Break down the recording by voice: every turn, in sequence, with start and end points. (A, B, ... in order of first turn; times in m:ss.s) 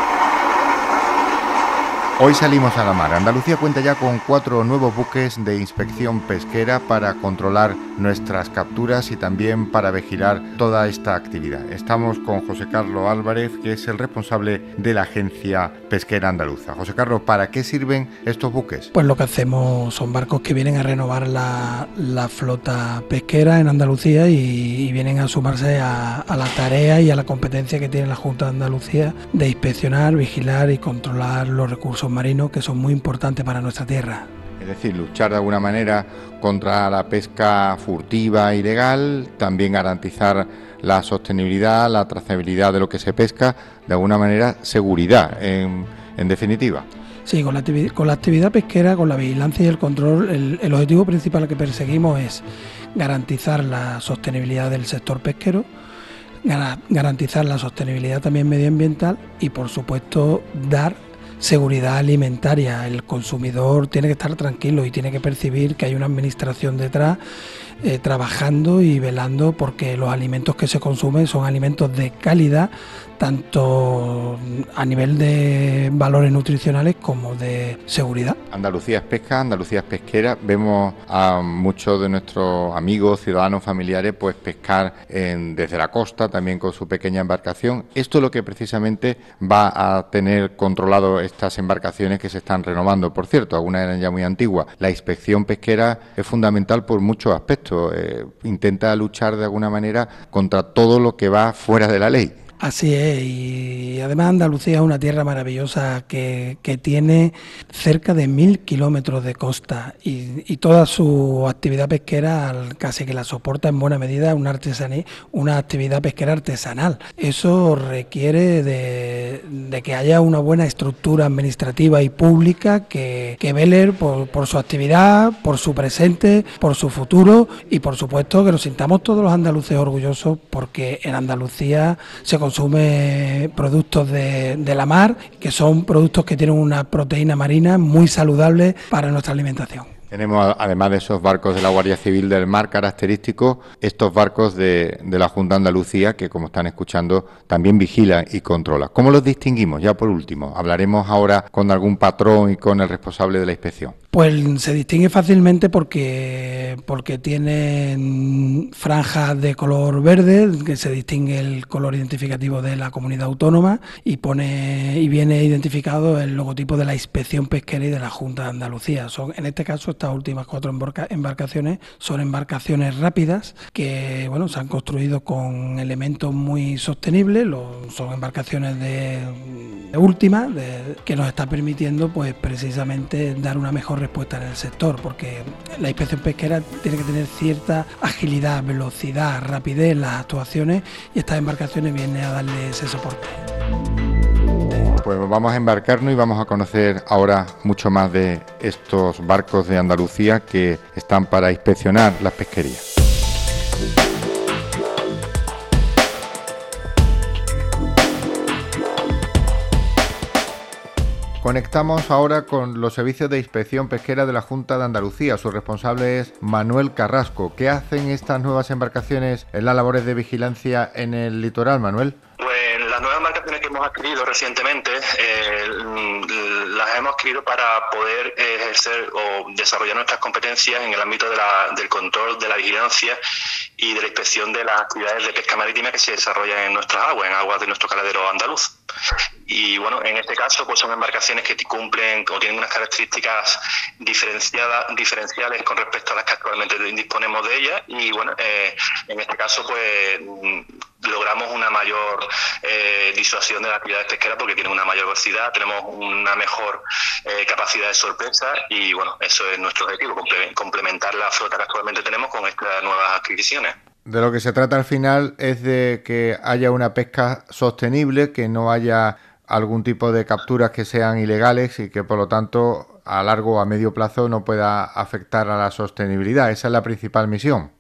0:02.2-0:18.9 A
0:18.9-0:34.3 B
0:34.6-0:46.9 A
0:47.3-0:52.4 B
0:53.0-0:55.7 B
0:56.4-1:07.2 B
1:07.8-1:18.4 B
1:18.5-1:42.4 A
1:42.6-2:19.9 B
2:20.1-2:34.0 A
2:34.1-3:13.4 B
3:15.0-3:22.8 A
3:31.4-3:42.2 A
3:42.4-3:53.2 C
3:53.8-3:58.7 C
3:59.5-4:23.8 C
4:24.1-4:37.7 A